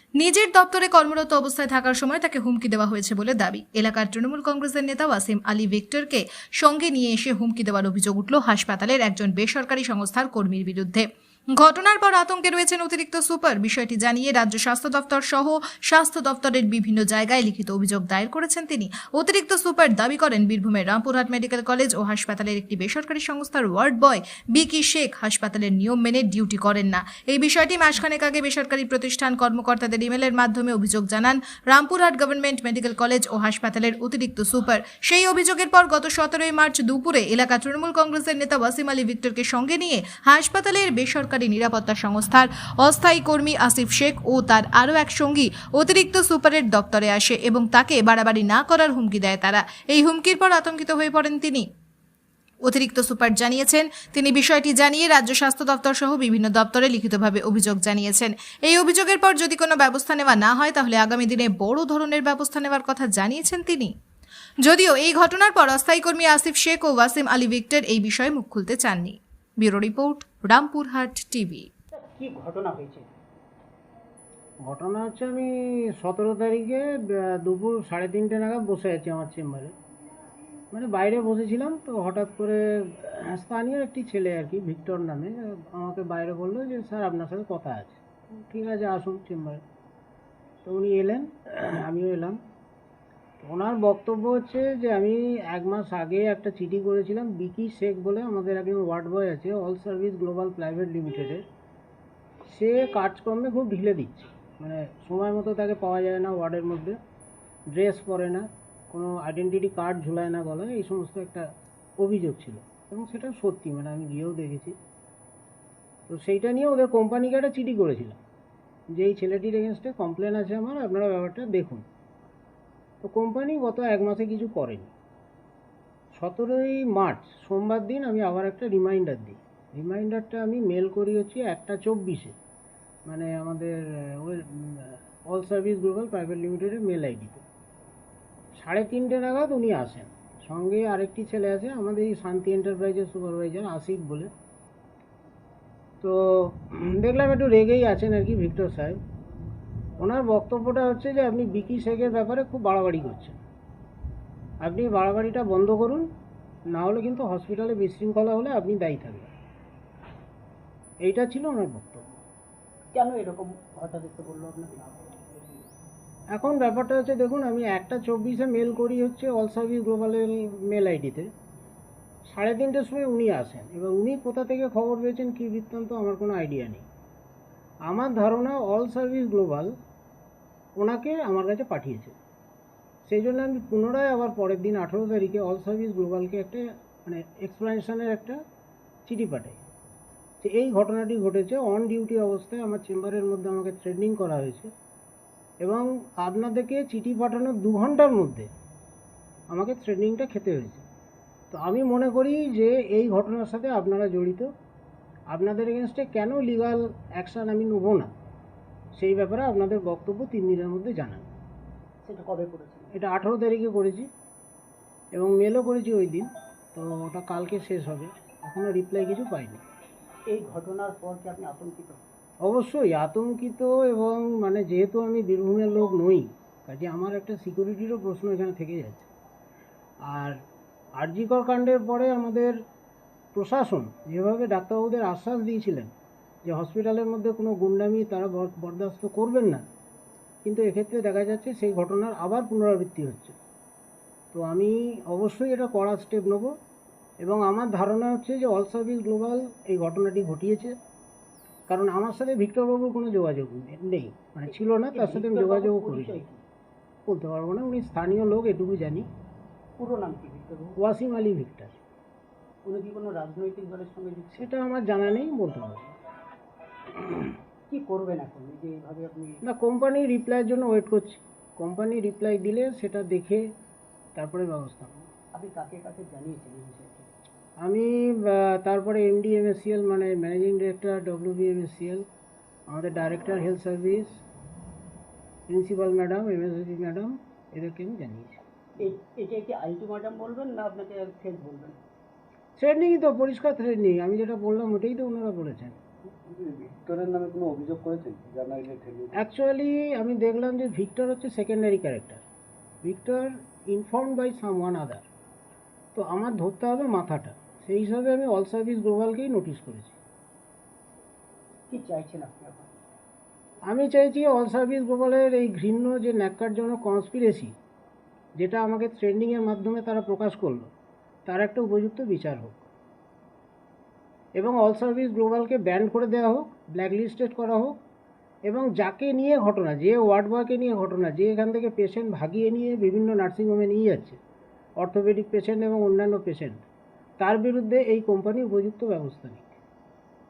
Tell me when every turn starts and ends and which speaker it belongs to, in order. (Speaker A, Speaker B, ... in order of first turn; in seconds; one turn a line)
Speaker A: 0.2-51.7
Speaker A: 52.7-63.9
Speaker A: 64.6-71.7
Speaker B: 71.9-73.1
Speaker C: 74.7-79.7
Speaker C: 80.7-89.6
Speaker C: 90.7-92.4
Speaker C: 93.4-101.4
Speaker C: 102.5-107.0
Speaker C: 107.7-111.5
Speaker C: 112.0-114.8
Speaker C: 116.1-118.2
Speaker C: 118.9-121.8
Speaker C: 123.0-124.9
Speaker C: 126.1-132.4
Speaker C: 133.1-137.4
Speaker C: 138.6-144.3
Speaker C: 146.0-149.0
Speaker C: 150.0-153.4
Speaker C: 154.6-156.1
Speaker C: 156.7-159.3
Speaker C: 161.1-162.2
Speaker B: 162.9-165.1
Speaker C: 166.3-171.3
Speaker C: 172.3-176.8
Speaker C: 177.9-179.7
Speaker C: 180.8-182.2
Speaker C: 183.1-188.4
Speaker C: 189.1-189.6
Speaker C: 190.4-194.7
Speaker C: 195.6-198.5
Speaker C: 199.5-200.8
Speaker C: 201.5-204.5
Speaker C: 205.3-208.1
Speaker C: 209.0-211.3
Speaker B: 212.0-212.9
Speaker C: 212.9-214.1
Speaker C: 215.1-219.6
Speaker B: 220.3-222.1
Speaker C: 222.4-229.1
Speaker C: 230.1-230.4
Speaker C: 231.0-232.6
Speaker C: 233.3-235.9
Speaker C: 236.4-239.6
Speaker C: 240.4-243.4
Speaker C: 244.3-246.5
Speaker C: 247.2-250.7
Speaker C: 251.7-256.2
Speaker B: 254.5-256.4
Speaker C: 257.1-259.1
Speaker B: 259.8-260.8
Speaker C: 260.8-261.8
Speaker B: 262.6-264.5
Speaker C: 264.3-265.9
Speaker B: 267.7-269.4
Speaker C: 269.4-273.5
Speaker C: 274.2-275.1
Speaker B: 275.3-277.1
Speaker C: 277.6-282.1
Speaker C: 282.7-284.2
Speaker C: 285.5-288.4
Speaker B: 288.8-291.8
Speaker C: 292.6-295.8
Speaker D: 296.2-299.2
Speaker C: 299.2-302.2
Speaker C: 302.8-305.1
Speaker C: 305.9-310.0
Speaker B: 311.7-312.8
Speaker C: 313.7-317.5
Speaker C: 318.4-320.7
Speaker C: 321.3-322.7
Speaker C: 324.4-327.8
Speaker C: 328.5-334.2
Speaker C: 334.8-336.6
Speaker C: 337.2-339.5